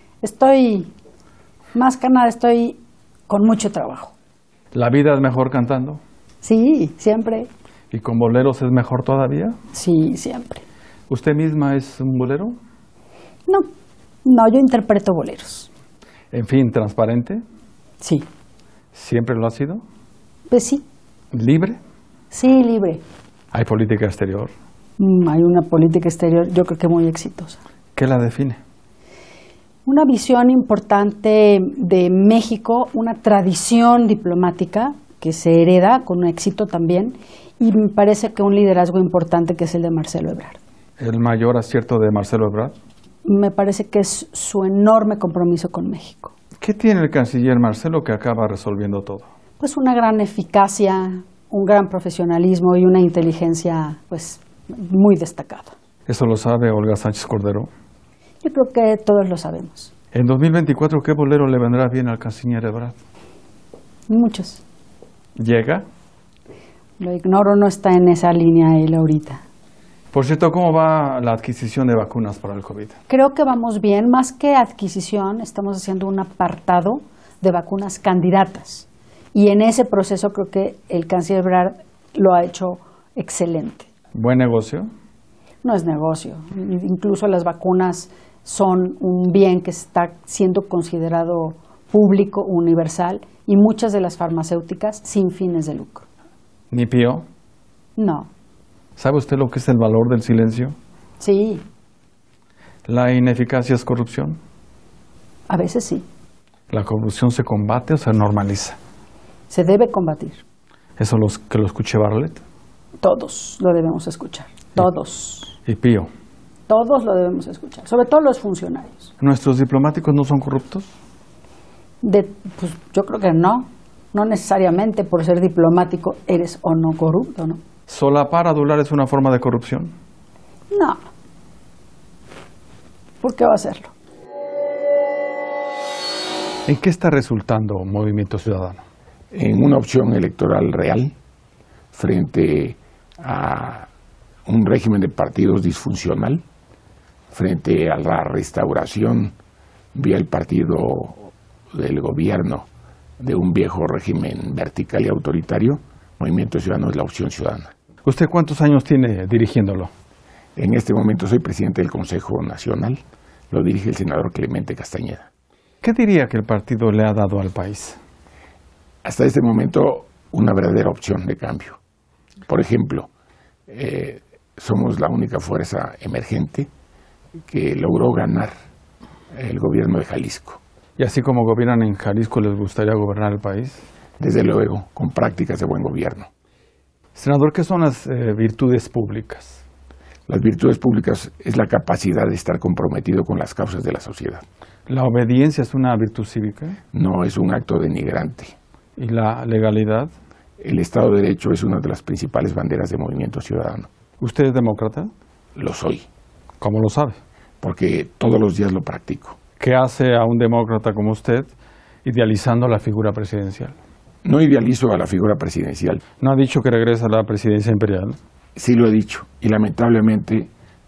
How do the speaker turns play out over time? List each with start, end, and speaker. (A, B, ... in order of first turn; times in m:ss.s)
0:00.2-0:00.9 A
0:01.7-0:04.1 A
0:04.7-0:06.0 B
0:06.4-0:07.5 A
0:07.9-0:09.6 B
0:09.7-0:10.6 A
0:11.1-0:12.6 B
0:14.2-0:15.7 A
0:16.3-0:17.4 B
0:18.9-0:19.8 B
0:20.5-0:20.8 A
0:21.3-0:21.8 B
0:22.3-0:23.0 A
0:23.5-0:24.5 B
0:25.0-0:27.6 A
0:28.0-0:28.6 B
0:29.8-0:40.6 A
0:41.0-0:42.7 B
0:43.2-0:46.3 A
0:46.6-0:49.3 B
0:49.6-0:55.7 A
0:56.1-0:57.7 B
0:58.4-0:59.9 A
1:00.1-1:03.0 B
1:04.1-1:04.6 A
1:05.4-1:05.8 B
1:07.0-1:09.4 A
1:10.1-1:13.0 B
1:13.1-1:23.9 A
1:24.1-1:24.9 B
1:25.6-1:36.0 A
1:36.7-1:37.2 B
1:38.0-1:38.3 A
1:39.0-1:40.7 B
1:41.2-1:41.6 A
1:42.9-1:44.4 B
1:45.5-1:46.0 A
1:46.7-1:48.8 B
1:49.5-1:50.4 A
1:51.0-1:52.4 B
1:53.0-1:55.5 A
1:55.6-1:56.1 B
1:56.7-1:59.1 A
1:59.2-2:00.9 B
2:02.0-2:07.6 A
2:07.9-2:09.9 B
2:10.7-2:11.0 A
2:13.2-2:13.9 A
2:16.6-2:18.8 B
2:19.3-2:21.1 C
2:21.9-2:23.9 C
2:24.4-2:26.4 C
2:27.3-2:29.3 C
2:29.9-2:32.7 C
2:33.2-2:37.7 C
2:38.0-2:39.9 B
2:40.6-2:45.3 C
2:45.8-2:48.0 B
2:49.0-2:51.8 C
2:52.5-2:53.1 C
2:53.7-2:56.7 C
2:57.5-2:58.5 C
2:59.3-3:00.6 C
3:01.0-3:03.8 B
3:04.2-3:06.3 C
3:07.1-3:09.6 B
3:10.3-3:14.4 C
3:14.9-3:16.8 B
3:16.9-3:18.5 C
3:19.0-3:20.1 B
3:20.6-3:23.9 C
3:24.2-3:25.1 B
3:25.6-3:26.0 C
3:26.6-3:27.2 B
3:27.6-3:29.4 C
3:29.6-3:31.5 B
3:32.0-3:33.7 B
3:34.2-3:36.0 C
3:36.2-3:38.2 B
3:38.6-3:40.5 C